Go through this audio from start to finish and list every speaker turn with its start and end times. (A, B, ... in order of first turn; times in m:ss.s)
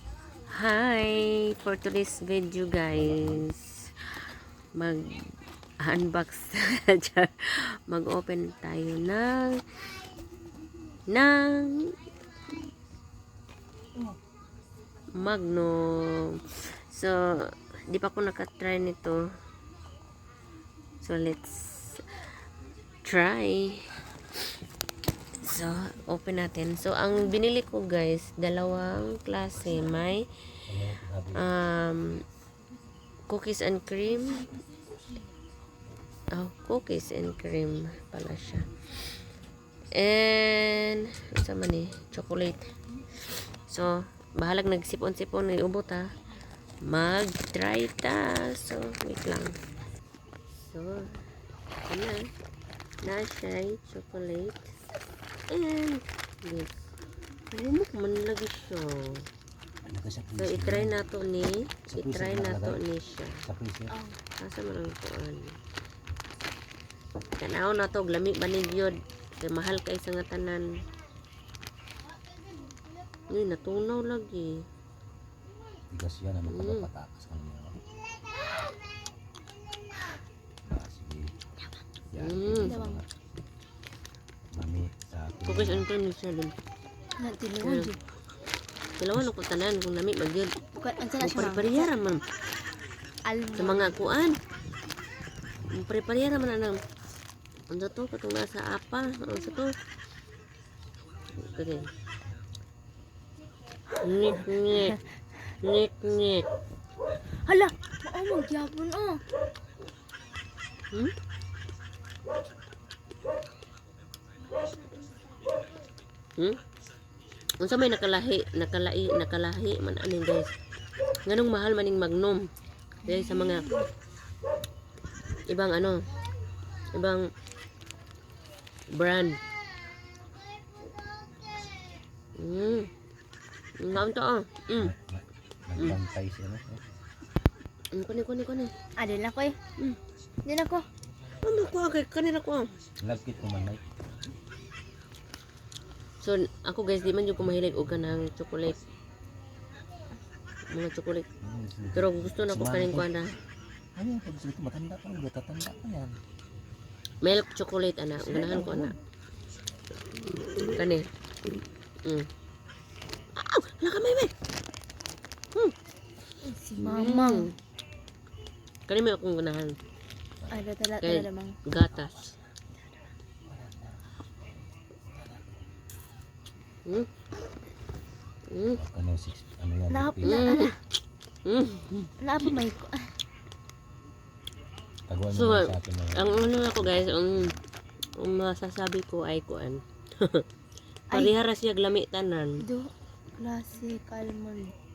0:00.5-0:03.9 A
0:02.9-0:03.4 B
0:05.8-0:07.3 A
0:07.9-0:09.6 A
0:11.1-0:11.9 A
0:15.2-0:19.2 A
0:21.0-0:22.0 A
0:23.0-0:23.8 A
0:25.4-0:30.2 A
0:30.7-0:31.5 B
0:31.4-0:32.2 A
0:33.3-0:34.5 A
0:36.3-0:38.7 A
0:39.9-0:42.6 A
0:43.7-0:46.1 A
0:46.8-0:49.5 A
0:50.6-0:51.0 A
0:51.9-0:52.2 A
0:53.0-0:54.7 A
0:55.5-0:56.8 A
0:57.5-0:59.2 A
0:59.8-1:01.0 B
1:00.4-1:03.4 A
1:01.9-1:02.8 B
1:03.4-1:03.9 B
1:03.9-1:04.2 C
1:04.4-1:05.5 A
1:07.4-1:10.6 A
1:13.3-1:14.5 A
1:15.9-1:17.8 B
1:16.5-1:16.9 A
1:20.7-1:21.3 B
1:22.1-1:23.1 B
1:22.2-1:22.8 A
1:22.6-1:23.0 C
1:24.5-1:25.9 B
1:25.4-1:26.5 A
1:27.2-1:28.0 C
1:27.6-1:27.9 A
1:29.0-1:30.5 A
1:30.7-1:31.9 C
1:31.2-1:32.2 A
1:33.2-1:34.0 C
1:33.5-1:34.4 A
1:35.7-1:36.8 A
1:37.7-1:39.7 A
1:41.4-1:41.9 A
1:44.0-1:45.0 A
1:44.7-1:45.0 C
1:45.6-1:46.4 A
1:47.4-1:49.2 C
1:57.6-2:00.5 A
2:01.2-2:02.5 A
2:03.0-2:03.7 A
2:03.0-2:03.8 C
2:05.5-2:06.0 A
2:06.9-2:07.2 A
2:08.9-2:09.4 A
2:12.4-2:12.9 A
2:13.8-2:14.9 A
2:14.8-2:16.8 B
2:17.9-2:18.7 A
2:19.0-2:19.6 C
2:20.4-2:20.8 C
2:21.4-2:22.7 A
2:23.0-2:23.8 B
2:26.2-2:28.8 A
2:30.7-2:31.3 A
2:31.4-2:33.1 B
2:32.0-2:33.3 A
2:34.0-2:36.2 B
2:37.2-2:38.9 A
2:38.5-2:38.9 B
2:40.4-2:41.1 A
2:43.4-2:44.3 A
2:46.4-2:47.5 C
2:46.8-2:47.5 A
2:48.9-2:49.7 A
2:50.4-2:50.6 B
2:50.5-2:51.6 C
2:51.0-2:52.3 A
2:53.5-2:54.0 B
2:55.2-2:55.5 B
2:58.5-2:58.8 A
2:58.7-3:00.5 B
2:59.9-3:00.8 C
3:00.2-3:00.7 A
3:01.4-3:02.5 A
3:02.2-3:03.1 C
3:05.1-3:07.6 B
3:05.3-3:07.5 A
3:08.2-3:10.4 A
3:11.1-3:11.4 C
3:11.1-3:12.5 A
3:12.6-3:14.7 C